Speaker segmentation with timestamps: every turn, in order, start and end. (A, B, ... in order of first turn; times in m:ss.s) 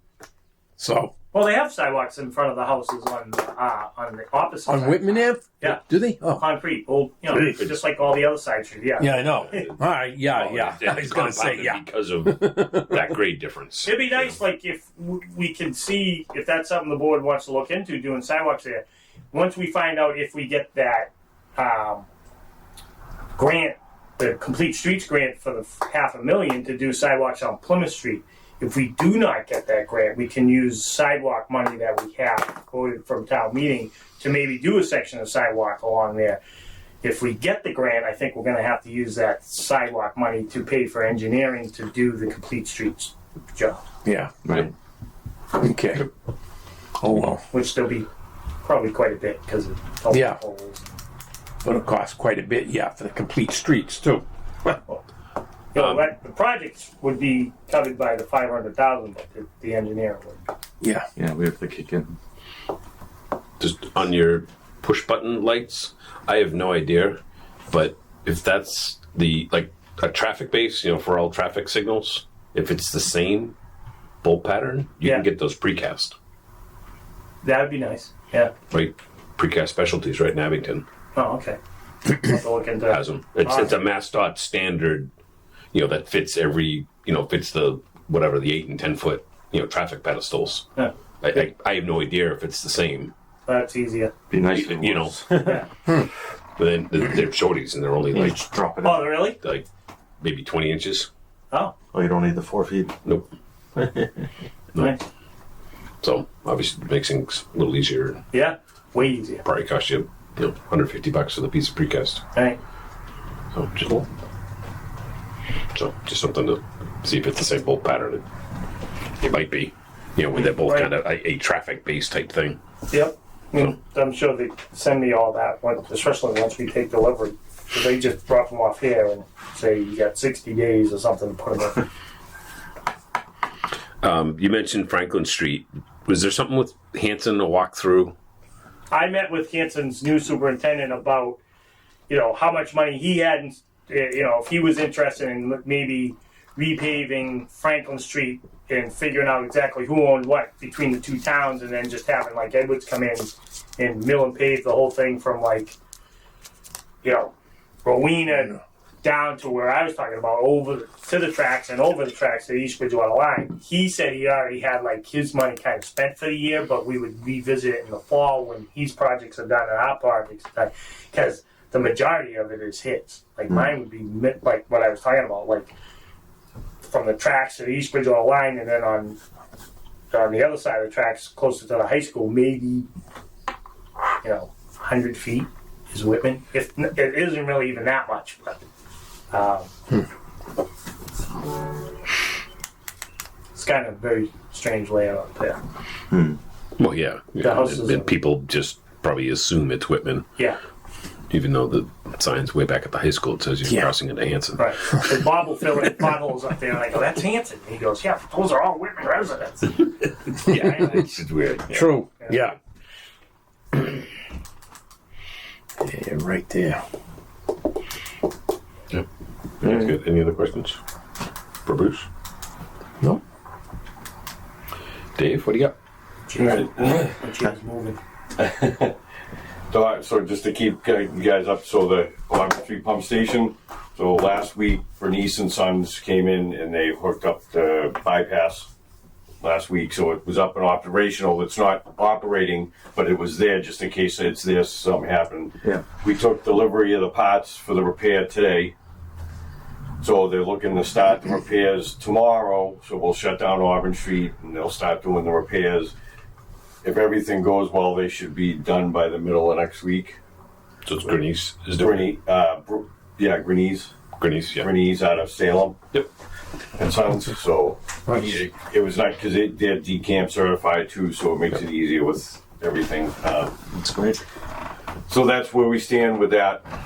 0:00.8-0:01.1 A
0:01.3-0:09.7 B
0:04.7-0:06.4 A
0:07.3-0:07.6 A
0:09.0-0:13.1 A
0:09.4-0:14.4 C
0:13.8-0:22.1 B
0:23.4-0:36.4 B
0:37.0-0:43.8 B
0:44.0-0:44.3 A
0:44.4-0:44.7 D
0:45.6-0:46.1 A
0:47.0-0:47.4 A
0:47.5-0:48.1 B
0:48.6-0:51.0 B
0:50.1-0:50.4 A
0:51.6-0:54.8 A
0:55.7-1:00.4 B
0:55.8-0:56.0 C
1:00.8-1:01.1 A
1:01.2-1:02.2 D
1:03.6-1:07.2 C
1:07.7-1:13.6 C
1:14.2-1:16.2 C
1:15.0-1:15.3 B
1:17.4-1:18.5 B
1:18.7-1:20.8 C
1:21.2-1:21.6 B
1:22.1-1:23.8 B
1:22.9-1:25.1 C
1:25.7-1:30.7 C
1:31.2-1:33.1 C
1:33.5-1:34.1 B
1:34.3-1:35.6 D
1:34.5-1:36.0 C
1:35.4-1:35.7 B
1:36.6-1:38.5 C
1:38.1-1:39.3 D
1:38.8-1:39.4 B
1:39.4-1:39.7 C
1:40.2-1:41.1 C
1:41.9-1:43.0 D
1:43.8-1:44.1 D
1:44.8-1:45.0 B
1:46.0-1:48.2 C
1:48.3-1:49.4 B
1:49.4-1:52.2 C
1:52.3-1:52.6 B
1:53.5-1:54.1 C
1:55.7-1:58.2 C
1:59.2-2:02.6 C
2:00.3-2:00.9 B
2:02.9-2:11.8 B
2:14.0-2:18.1 C
2:18.9-2:21.4 B
2:22.1-2:35.8 B
2:37.0-2:37.3 B
2:37.8-2:55.7 B
2:56.9-2:59.2 B
3:00.1-3:02.9 B
3:04.2-3:08.7 B
3:09.3-3:09.7 B
3:13.5-3:15.6 B
3:16.1-3:16.4 D
3:16.8-3:20.3 C
3:17.4-3:18.1 B
3:21.3-3:24.7 C
3:23.7-3:23.9 A
3:24.6-3:31.1 B
3:30.3-3:31.8 C
3:31.7-3:32.6 A
3:32.2-3:32.5 B
3:35.8-3:36.8 A
3:39.6-3:40.8 C
3:41.7-3:42.1 C
3:45.2-3:45.8 C
3:46.3-3:48.0 B
3:46.4-3:47.0 E
3:48.4-3:49.0 E
3:49.7-3:58.7 E
3:59.4-4:08.7 E
4:10.0-4:15.9 E
4:16.8-4:20.2 E
4:20.8-4:22.1 C
4:21.8-4:23.9 E
4:24.2-4:24.7 C
4:24.6-4:25.8 E
4:26.8-4:33.6 E
4:33.7-4:34.2 D
4:35.1-4:36.7 E